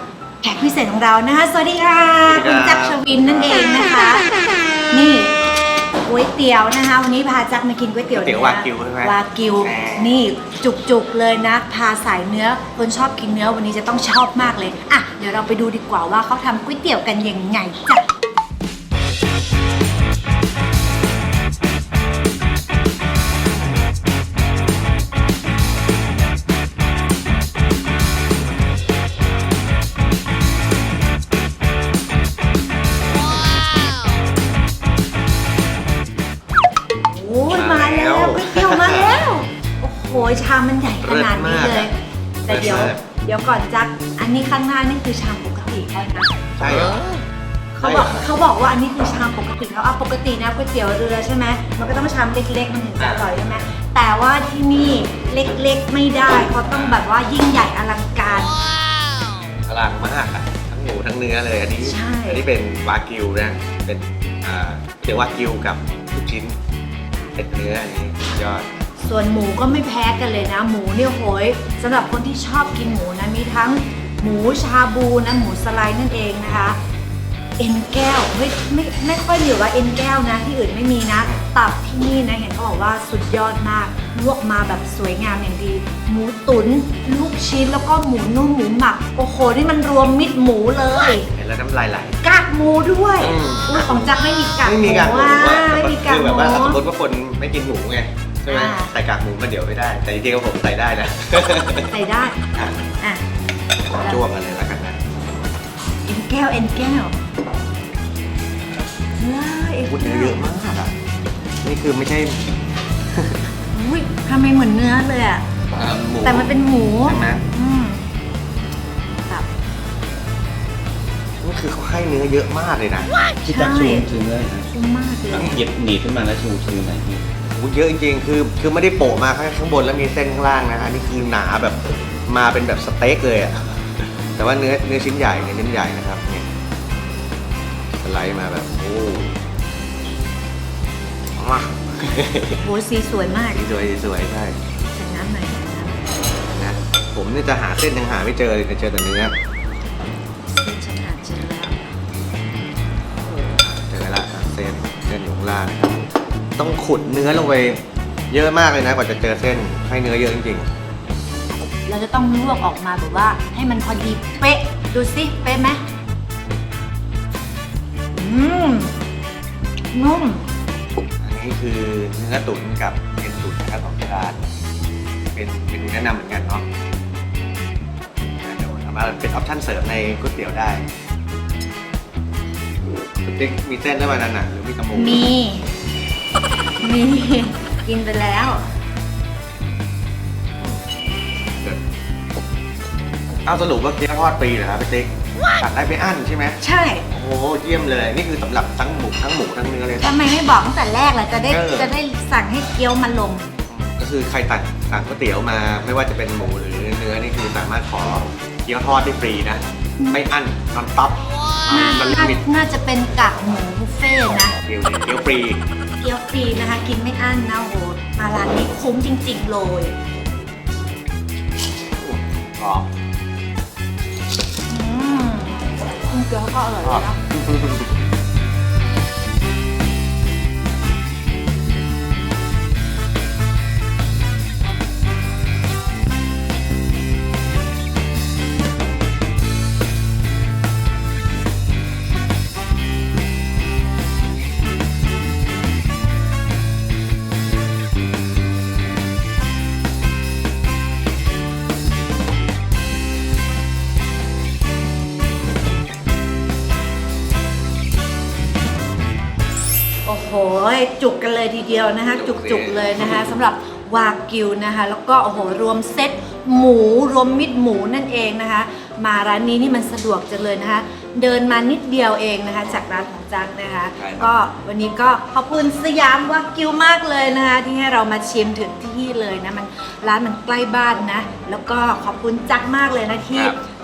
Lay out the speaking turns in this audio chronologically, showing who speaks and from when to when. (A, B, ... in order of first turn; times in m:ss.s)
0:00.4-0:04.2 A
0:02.3-0:03.6 B
0:04.9-0:05.3 A
0:06.0-0:18.0 A
0:08.1-0:10.2 B
0:37.1-0:41.9 A
0:37.5-0:39.2 B
0:41.0-0:41.9 B
0:42.4-0:46.3 A
0:42.5-0:43.0 B
0:46.6-0:47.2 B
0:47.7-0:58.6 A
0:47.8-0:48.2 B
0:53.0-0:53.6 B
0:56.7-0:57.0 B
0:59.7-1:06.6 B
1:01.9-1:02.4 A
1:07.4-1:08.7 B
1:09.0-1:16.8 A
1:17.6-1:31.3 A
1:31.3-1:32.2 B
1:32.2-1:36.8 A
1:33.2-1:41.9 B
1:38.5-1:38.9 A
1:41.9-1:42.4 A
1:42.5-1:42.8 B
1:43.9-1:45.0 B
1:46.0-1:47.1 A
1:49.2-1:50.4 A
1:49.9-1:50.9 B
1:51.6-1:52.5 B
1:53.1-1:53.5 B
1:53.7-1:55.4 A
1:55.7-1:57.4 B
1:56.2-1:58.0 A
2:01.4-2:03.1 B
2:03.3-2:04.1 A
2:03.4-2:04.7 C
2:04.7-2:05.6 A
2:05.3-2:07.2 C
2:07.4-2:16.5 B
2:18.0-2:19.4 B
2:21.4-2:22.7 B
2:22.6-2:23.6 A
2:23.5-2:24.6 B
2:24.9-2:26.1 A
2:26.5-2:29.3 B
2:30.4-2:31.8 A
2:33.3-2:33.6 A
2:33.8-2:36.0 B
2:36.6-2:40.7 B
2:41.8-2:45.8 A
2:48.1-2:48.9 A
2:49.9-2:50.4 A
2:51.2-2:54.4 B
2:55.3-2:56.7 B
2:58.4-3:00.9 B
3:03.2-3:05.2 B
3:04.9-3:05.7 A
3:06.8-3:08.6 A
3:13.4-3:16.6 B
3:16.6-3:17.0 A
3:17.1-3:20.2 B
3:20.0-3:23.4 A
3:21.5-3:21.9 B
3:23.7-3:32.4 B
3:31.7-3:34.6 A
3:34.6-3:35.6 B
3:36.0-3:39.9 A
3:42.0-3:42.9 B
3:44.7-3:47.2 A
3:46.8-3:47.9 B
4:20.1-4:43.6 A
4:22.0-4:23.2 B
4:34.0-4:34.3 B
4:43.3-4:43.6 B